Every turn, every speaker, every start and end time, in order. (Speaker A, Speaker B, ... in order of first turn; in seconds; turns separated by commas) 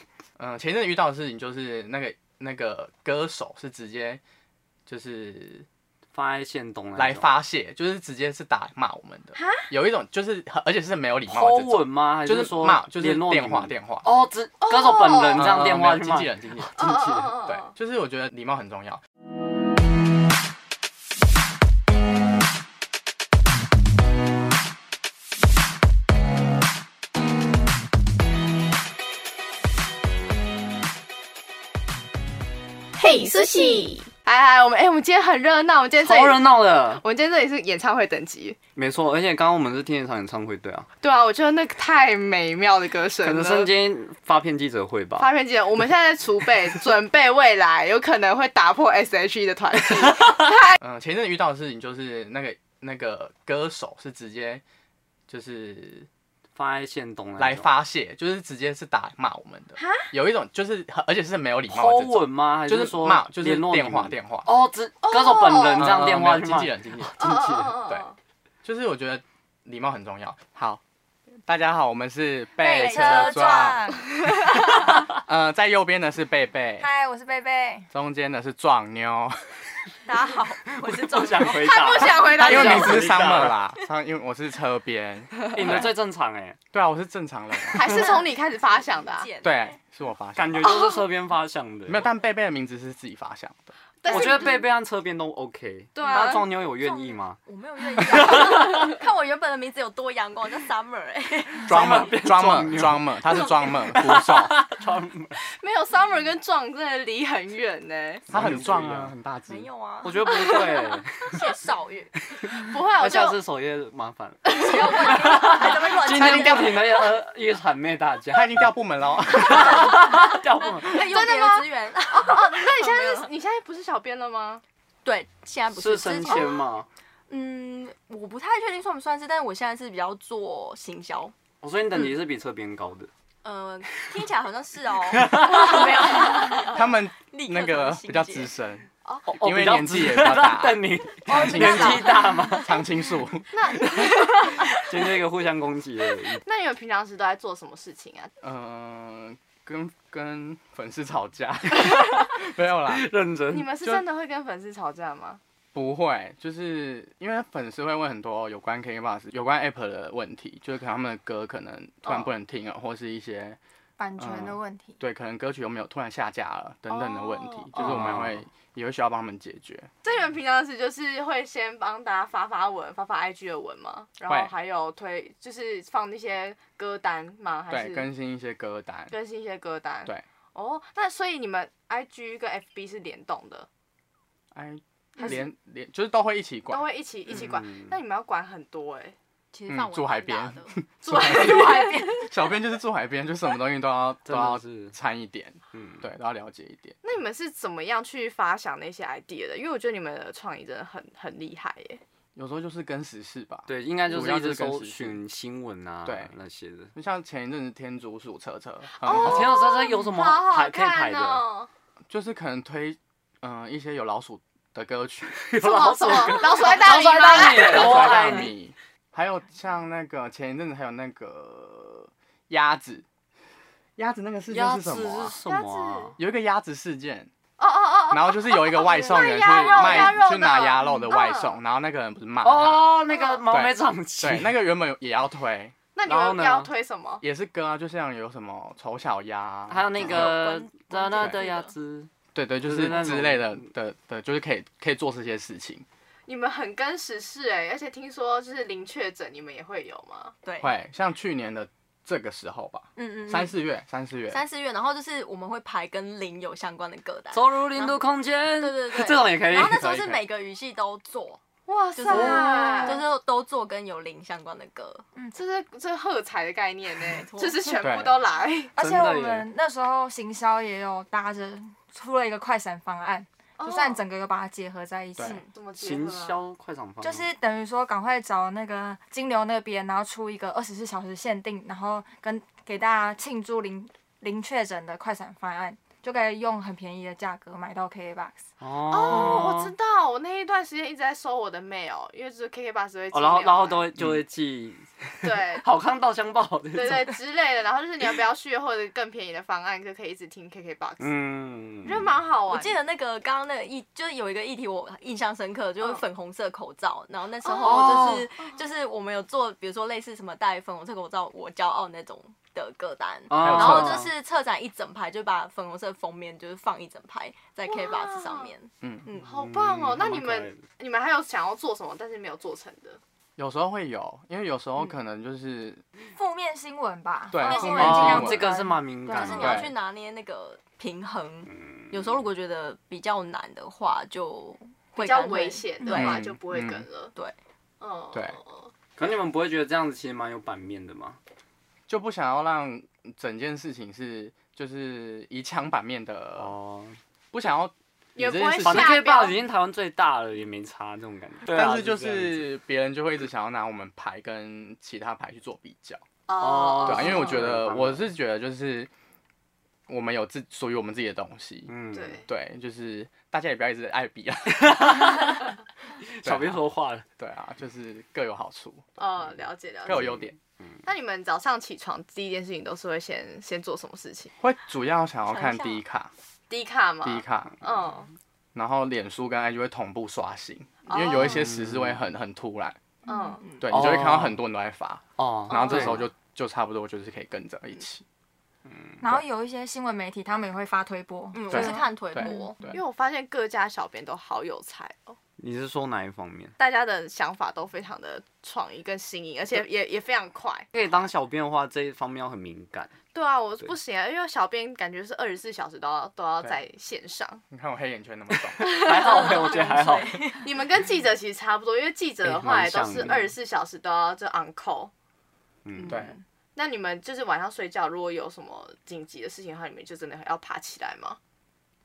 Speaker A: 0.4-4.2, Speaker A: 4.9-5.7, Speaker B: 6.1-7.3, Speaker A: 7.0-14.1, Speaker C: 9.3-9.7, Speaker B: 11.3-17.3, Speaker C: 14.6-15.5, Speaker A: 15.3-19.0, Speaker C: 16.8-17.7, Speaker C: 33.0-38.6, Speaker B: 36.0-37.0, Speaker B: 38.8-40.9, Speaker C: 41.0-43.7, Speaker B: 43.2-45.3, Speaker C: 45.2-50.8, Speaker A: 50.8-54.6, Speaker A: 55.3-56.1, Speaker B: 56.5-57.7, Speaker A: 57.4-64.5, Speaker C: 59.8-60.1, Speaker B: 61.7-67.8, Speaker C: 65.0-66.0, Speaker A: 65.8-68.0, Speaker C: 67.2-68.2, Speaker A: 68.6-70.8, Speaker A: 71.5-73.8, Speaker D: 72.6-74.1, Speaker E: 72.7-73.7, Speaker A: 74.5-76.9, Speaker D: 76.8-77.9, Speaker A: 77.9-79.7, Speaker E: 80.0-82.3, Speaker B: 80.6-83.6, Speaker C: 81.6-83.5, Speaker A: 82.2-85.9, Speaker B: 85.5-86.6, Speaker A: 86.7-88.0, Speaker C: 87.7-89.3, Speaker E: 88.2-89.7, Speaker A: 89.4-90.8, Speaker B: 90.3-92.1, Speaker C: 90.6-90.9, Speaker A: 91.9-93.7, Speaker C: 94.0-94.6, Speaker B: 94.0-97.4, Speaker E: 94.1-94.5, Speaker C: 95.9-96.4, Speaker E: 96.1-101.8, Speaker B: 98.0-98.9, Speaker B: 101.6-105.4, Speaker A: 101.7-104.5, Speaker C: 105.4-108.3, Speaker B: 108.3-109.1, Speaker A: 108.3-109.7, Speaker E: 109.4-110.6, Speaker B: 110.0-111.5, Speaker C: 110.3-110.9, Speaker E: 111.2-112.1, Speaker B: 112.4-118.7, Speaker C: 112.6-113.4, Speaker C: 114.5-114.9, Speaker E: 114.5-116.8, Speaker A: 116.1-116.8, Speaker A: 118.3-119.9, Speaker B: 119.3-121.0, Speaker E: 119.5-123.3, Speaker C: 120.8-124.6, Speaker E: 125.0-126.6, Speaker B: 125.7-126.9, Speaker E: 127.3-131.3, Speaker B: 131.6-133.1, Speaker E: 133.4-138.5, Speaker B: 135.1-136.3, Speaker A: 136.7-138.9, Speaker B: 139.3-142.8, Speaker A: 139.4-142.1, Speaker D: 141.3-142.2, Speaker E: 141.5-142.8, Speaker A: 142.6-143.6, Speaker C: 143.5-144.8, Speaker B: 144.4-146.4, Speaker C: 146.4-148.3, Speaker A: 148.4-153.1, Speaker B: 152.9-153.7, Speaker C: 153.5-155.4, Speaker A: 155.7-163.6, Speaker C: 162.0-162.3, Speaker D: 164.0-165.0, Speaker A: 164.2-169.9, Speaker C: 166.9-168.2, Speaker B: 167.7-168.4, Speaker C: 170.0-178.1, Speaker A: 177.7-179.1, Speaker C: 179.1-183.7, Speaker A: 184.5-186.9, Speaker C: 185.2-185.4, Speaker C: 186.7-189.2, Speaker B: 187.3-187.9, Speaker E: 189.5-192.2, Speaker A: 189.7-196.9, Speaker C: 191.0-192.3, Speaker B: 194.2-194.9, Speaker B: 195.7-196.1, Speaker C: 197.0-202.0, Speaker A: 202.3-205.2, Speaker B: 203.7-206.9, Speaker A: 206.1-206.3, Speaker A: 206.9-209.5, Speaker C: 209.0-211.7, Speaker B: 209.1-211.4, Speaker A: 212.1-215.4, Speaker B: 215.3-218.5, Speaker C: 215.6-218.4, Speaker A: 217.4-223.1, Speaker A: 224.0-225.3, Speaker B: 224.5-226.2, Speaker C: 225.4-226.2, Speaker A: 226.2-227.3, Speaker C: 227.6-231.6, Speaker A: 228.1-232.9, Speaker B: 232.4-234.5, Speaker C: 233.1-233.4, Speaker A: 233.5-235.7, Speaker C: 235.9-237.2, Speaker B: 236.0-236.7, Speaker A: 237.2-240.4, Speaker B: 239.7-242.1, Speaker E: 239.9-241.7, Speaker A: 242.3-245.8, Speaker B: 242.6-243.7, Speaker C: 246.3-250.3, Speaker A: 250.6-254.4, Speaker E: 252.9-253.5, Speaker E: 254.3-261.4, Speaker B: 257.3-260.1, Speaker A: 259.7-260.2, Speaker C: 261.7-263.0, Speaker E: 261.9-265.0, Speaker B: 262.1-263.0, Speaker C: 265.3-268.7, Speaker E: 267.1-267.7, Speaker A: 267.8-268.1, Speaker B: 268.8-269.5, Speaker D: 268.8-275.4, Speaker C: 273.6-274.0, Speaker C: 275.2-276.4, Speaker B: 275.8-277.3, Speaker D: 277.0-288.4, Speaker B: 288.6-289.7, Speaker C: 288.9-293.9, Speaker B: 293.1-297.1, Speaker C: 295.2-295.6, Speaker C: 296.7-301.1, Speaker B: 301.0-302.1, Speaker C: 301.8-302.8, Speaker E: 302.5-319.3, Speaker C: 307.4-308.6, Speaker B: 307.6-308.3, Speaker B: 313.3-314.1, Speaker A: 313.4-314.1, Speaker C: 317.6-318.5, Speaker A: 318.8-319.1, Speaker C: 319.2-323.0, Speaker B: 319.3-320.6, Speaker A: 323.4-325.8, Speaker D: 326.1-329.6, Speaker A: 327.3-328.5, Speaker C: 327.5-328.1, Speaker B: 327.7-329.7, Speaker E: 329.1-336.2, Speaker A: 329.3-329.7, Speaker B: 331.5-332.2, Speaker C: 335.0-337.1, Speaker D: 335.8-336.1, Speaker A: 335.9-336.9, Speaker C: 337.8-338.7, Speaker B: 339.0-341.2, Speaker A: 341.9-346.5, Speaker B: 346.4-347.0, Speaker A: 347.3-348.9, Speaker C: 348.1-349.4, Speaker B: 348.6-352.4, Speaker A: 351.5-356.0, Speaker C: 356.3-357.4, Speaker B: 356.4-358.1, Speaker A: 356.8-358.9, Speaker A: 359.9-361.7, Speaker B: 361.7-362.2, Speaker C: 361.9-362.3, Speaker A: 362.2-365.3, Speaker B: 364.5-365.6, Speaker B: 366.1-367.0, Speaker A: 366.2-366.6, Speaker A: 367.2-368.8, Speaker C: 369.0-370.1, Speaker A: 369.9-370.4, Speaker B: 369.9-370.8, Speaker C: 370.8-374.3, Speaker A: 374.4-376.1, Speaker E: 375.3-375.8, Speaker C: 376.5-378.1, Speaker A: 377.0-377.6, Speaker A: 378.5-382.8, Speaker C: 380.9-381.5, Speaker B: 381.2-382.0, Speaker C: 383.1-383.4, Speaker E: 383.1-383.7, Speaker A: 383.6-388.0, Speaker B: 383.7-384.4, Speaker B: 385.2-386.0, Speaker C: 385.5-386.0, Speaker B: 388.7-389.0, Speaker D: 389.0-391.8, Speaker E: 391.3-392.6, Speaker A: 391.5-392.8, Speaker C: 392.3-395.2, Speaker B: 395.4-396.5, Speaker C: 396.6-400.7, Speaker B: 400.7-402.9, Speaker C: 403.1-407.4, Speaker A: 407.5-408.7, Speaker B: 408.6-410.2, Speaker C: 408.7-409.6, Speaker E: 408.9-410.5, Speaker C: 410.4-414.9, Speaker B: 412.2-413.2, Speaker B: 415.6-416.0, Speaker E: 415.8-416.2, Speaker A: 415.9-416.1, Speaker C: 416.5-421.2